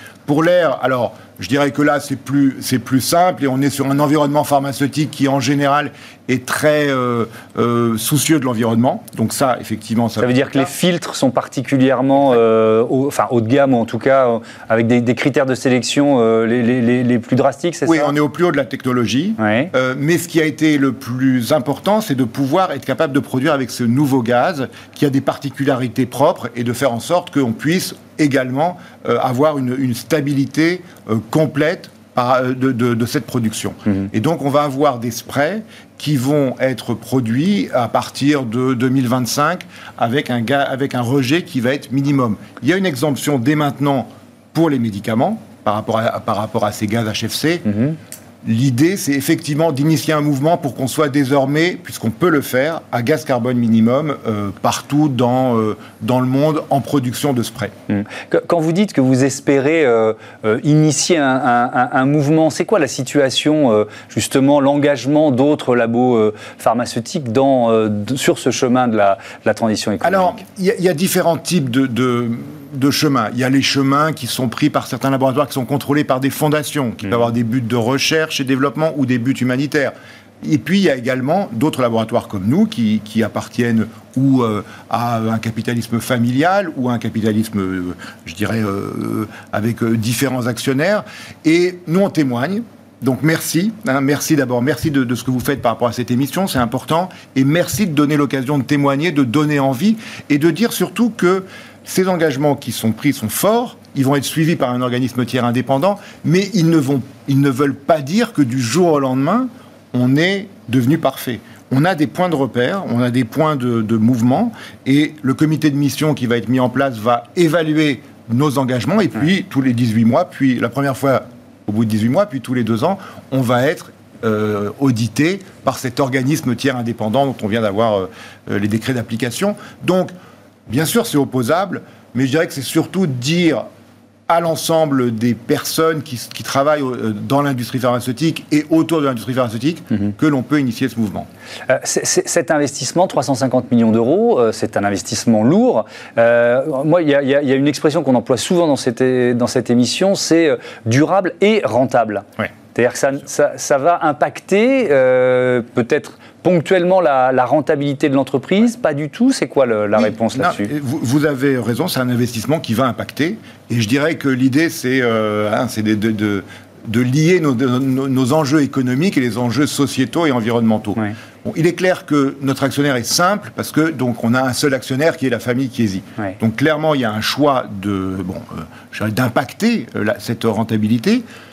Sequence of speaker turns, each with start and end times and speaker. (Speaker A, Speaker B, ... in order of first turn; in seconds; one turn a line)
Speaker A: 0.3-10.7
Speaker B: 10.2-18.1
Speaker A: 17.9-47.6
Speaker B: 19.4-19.7
Speaker B: 47.7-48.0
Speaker A: 48.4-57.7
Speaker B: 57.9-70.4
Speaker A: 70.0-130.1
Speaker A: 130.7-133.7
Speaker A: 134.3-141.3
Speaker B: 141.7-160.7
Speaker A: 159.9-181.2